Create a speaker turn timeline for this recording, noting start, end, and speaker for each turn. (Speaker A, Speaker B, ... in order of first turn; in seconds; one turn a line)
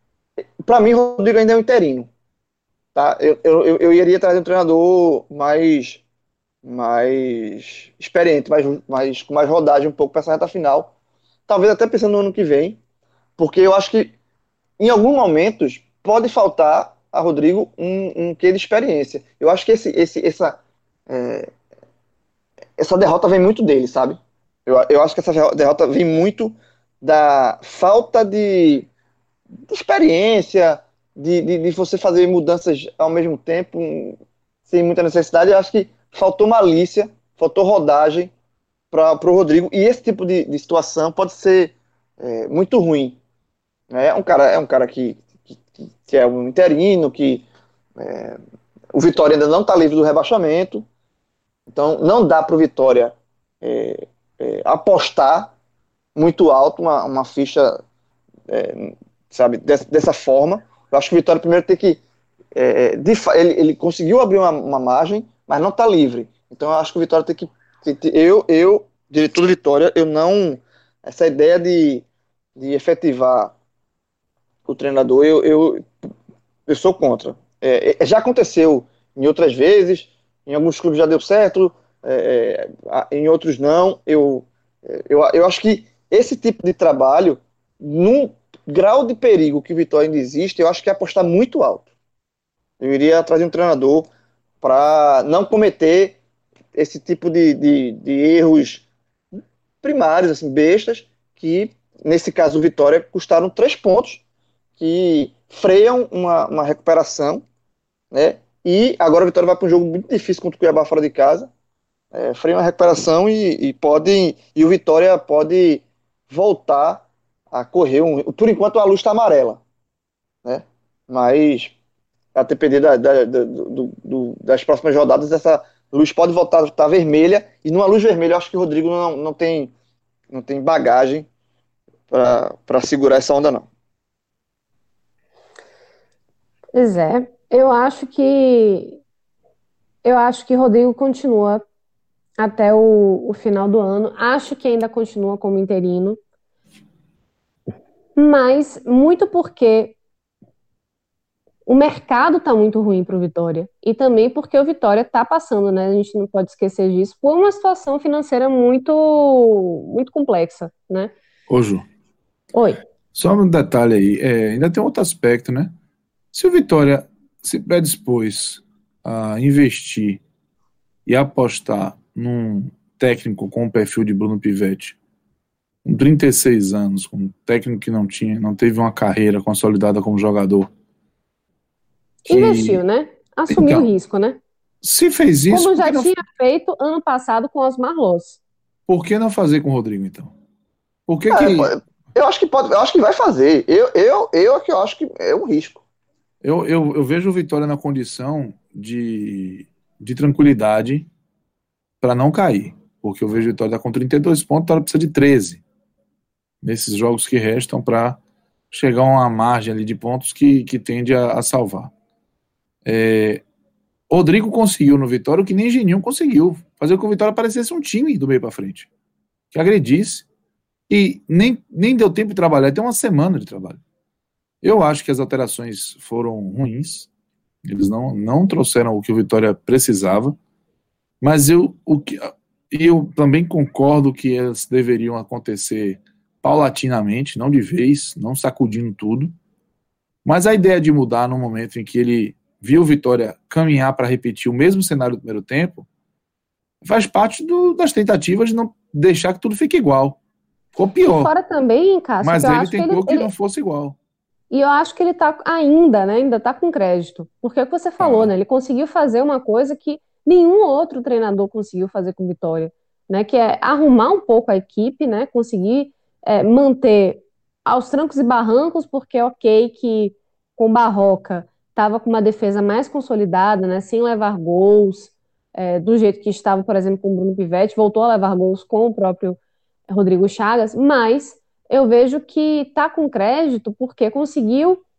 Speaker A: 0.6-2.1
Speaker A: 2.9-6.0
Speaker A: 6.6-10.9
Speaker A: 11.5-12.8
Speaker A: 13.4-14.2
Speaker A: 14.8-21.5
Speaker A: 22.8-28.9
Speaker A: 29.7-38.3
Speaker A: 38.9-43.2
Speaker A: 43.9-47.4
Speaker A: 48.0-48.4
Speaker A: 48.9-50.8
Speaker A: 51.7-55.5
Speaker A: 56.1-57.8
Speaker A: 58.5-62.0
Speaker A: 62.5-72.0
Speaker A: 72.6-73.5
Speaker A: 74.7-75.9
Speaker A: 76.7-91.9
Speaker A: 92.8-94.1
Speaker A: 94.6-96.2
Speaker A: 96.7-98.8
Speaker A: 99.8-104.2
Speaker A: 104.8-107.4
Speaker A: 108.1-111.5
Speaker A: 112.1-119.6
Speaker A: 120.4-121.7
Speaker A: 122.3-129.7
Speaker A: 130.3-131.3
Speaker A: 132.1-133.7
Speaker B: 136.7-139.0
Speaker B: 140.0-141.6
Speaker B: 142.4-146.2
Speaker B: 148.2-149.9
Speaker B: 151.7-161.1
Speaker C: 161.5-161.8
Speaker B: 162.5-162.8
Speaker C: 163.1-165.7
Speaker C: 166.3-170.2
Speaker C: 171.1-174.9
Speaker C: 175.8-180.7
Speaker B: 182.3-184.4
Speaker C: 182.3-182.8
Speaker C: 183.5-183.9
Speaker C: 184.8-186.1
Speaker B: 185.5-188.4
Speaker C: 188.9-190.3
Speaker C: 191.1-191.7
Speaker A: 191.3-195.8
Speaker C: 196.4-201.1
Speaker C: 202.0-205.6
Speaker C: 206.6-208.2
Speaker C: 208.7-211.9
Speaker C: 212.8-213.4
Speaker C: 214.1-218.9
Speaker C: 219.5-220.2
Speaker C: 220.9-223.8
Speaker C: 224.6-227.1
Speaker C: 227.6-230.3
Speaker C: 231.2-239.3
Speaker C: 240.2-245.9
Speaker C: 246.8-250.2
Speaker C: 250.7-251.3
Speaker B: 251.1-253.3
Speaker C: 252.2-254.0
Speaker B: 254.5-279.4
Speaker C: 258.0-258.3
Speaker B: 279.9-284.8